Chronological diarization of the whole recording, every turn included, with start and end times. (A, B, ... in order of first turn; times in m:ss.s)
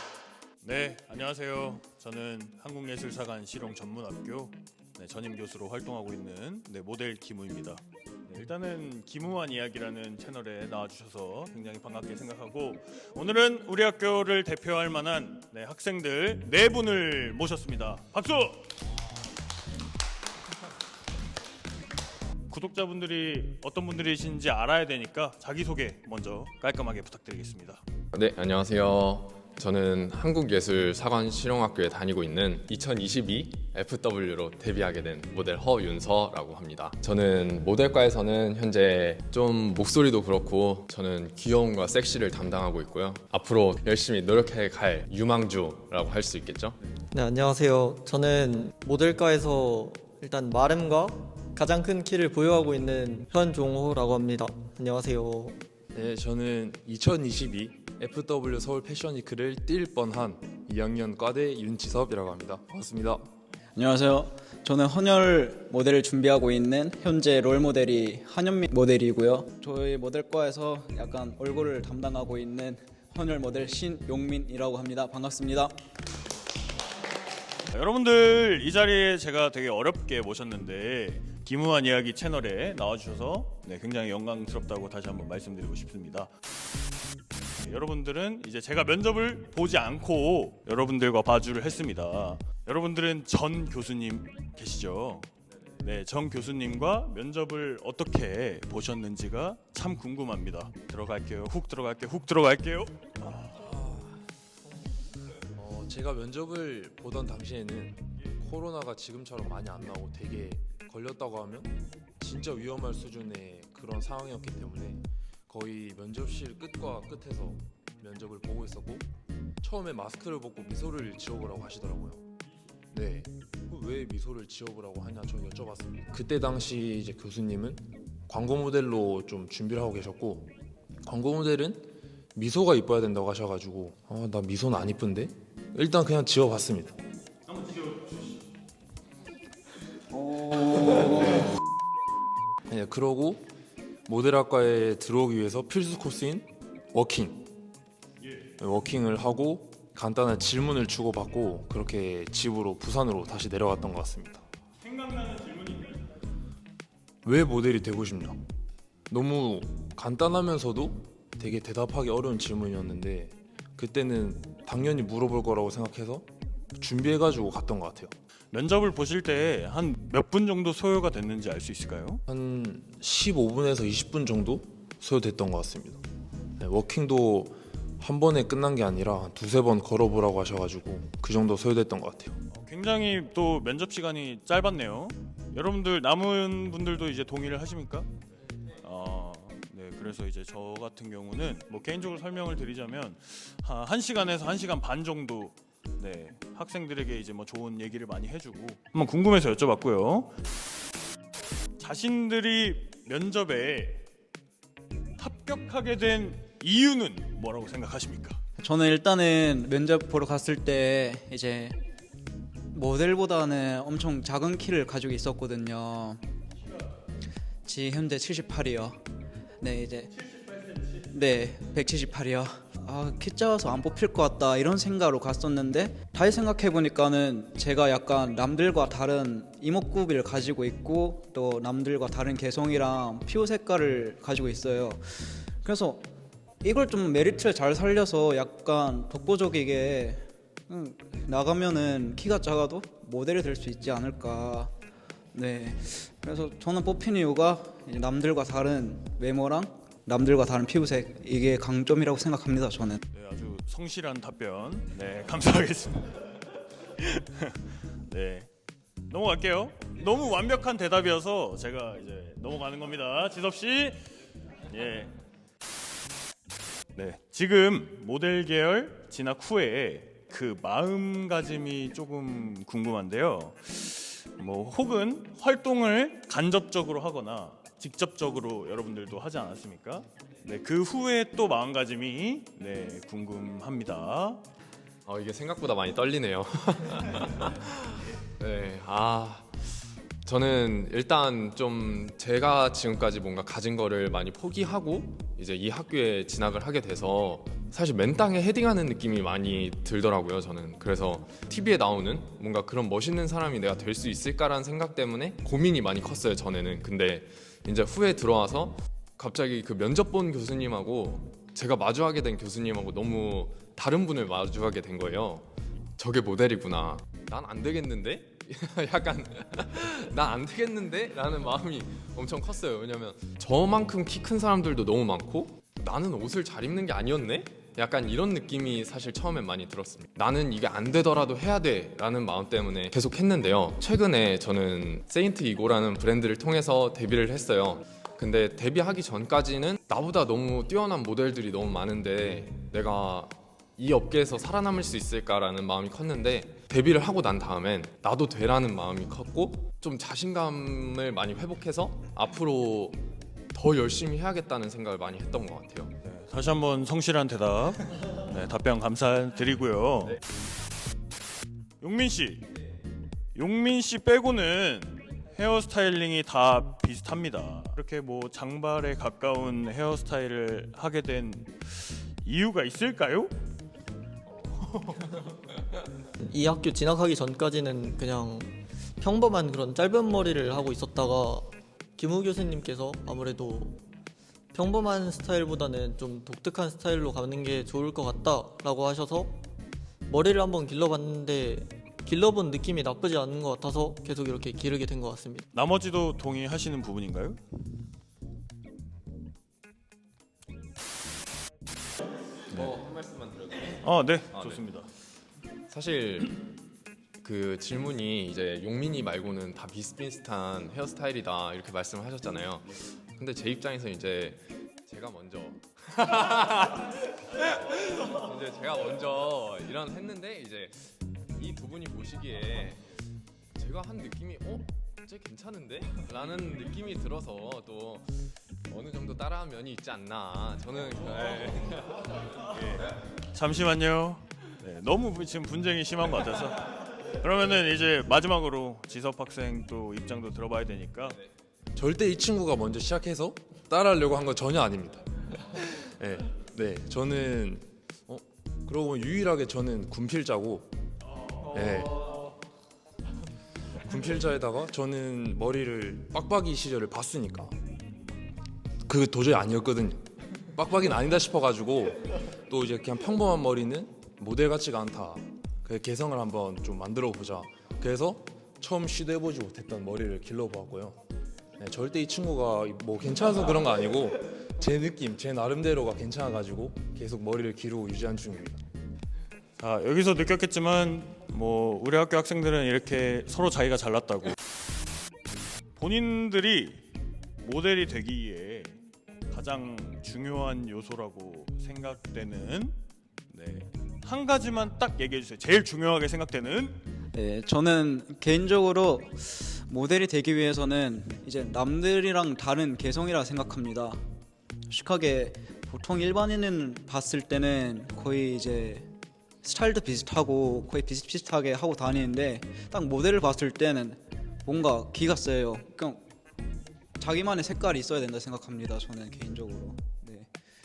0:00.6-0:18.7 A
0:22.5-0:27.8 A
0:28.1-0:46.8 B
0:47.1-0:55.6 C
0:55.9-1:03.2 D
1:03.8-1:15.7 E
1:17.7-1:26.3 A
1:27.6-1:43.5 A
1:45.5-1:59.1 D
1:59.6-2:02.2 D
2:02.9-2:17.0 D
2:17.5-2:18.5 A
2:20.1-2:21.4 E
2:22.7-2:23.5 D
2:24.1-2:27.5 D
2:28.2-2:28.5 A
2:28.6-2:34.4 D
2:34.8-2:36.2 A
2:37.2-2:38.4 D
2:39.1-2:48.1 D
2:48.5-2:52.2 A
2:52.3-2:56.0 D
2:56.6-3:02.4 D
3:02.5-3:08.1 A
3:08.8-3:20.3 A
3:21.8-3:24.1 A
3:25.2-3:28.4 A
3:28.6-3:31.8 E
3:32.7-3:36.2 E
3:37.6-3:39.0 E
3:39.6-3:40.1 E
3:41.1-3:56.1 E
3:56.6-4:04.7 E
4:05.3-4:13.0 E
4:13.1-4:16.3 A
4:16.9-4:18.5 A
4:19.1-4:24.0 A
4:24.7-4:25.2 A
4:27.0-4:44.4 A
4:45.1-4:49.7 B
4:50.2-5:56.0 B
5:56.0-6:00.2 A
6:01.8-6:02.5 A
6:03.4-6:13.3 A
6:14.4-6:15.1 B
6:16.2-6:23.8 C
6:24.5-6:29.4 C
6:30.1-6:35.4 C
6:35.5-6:37.4 A
6:42.5-6:44.6 B
6:43.8-6:44.9 A
6:45.7-6:46.4 B
6:47.2-7:02.8 B
7:03.6-7:12.1 B
7:12.5-7:21.2 A
7:21.8-7:30.7 D
7:31.5-7:32.1 D
7:33.8-7:37.6 D
7:38.9-7:51.0 D
7:51.6-7:58.6 D
7:59.6-8:04.4 A
8:05.8-8:06.8 A
8:07.4-8:08.8 A
8:09.3-8:12.8 A
8:13.3-8:16.8 A
8:17.1-8:24.0 E
8:24.7-8:28.9 E
8:29.4-8:36.0 E
8:37.0-8:40.3 E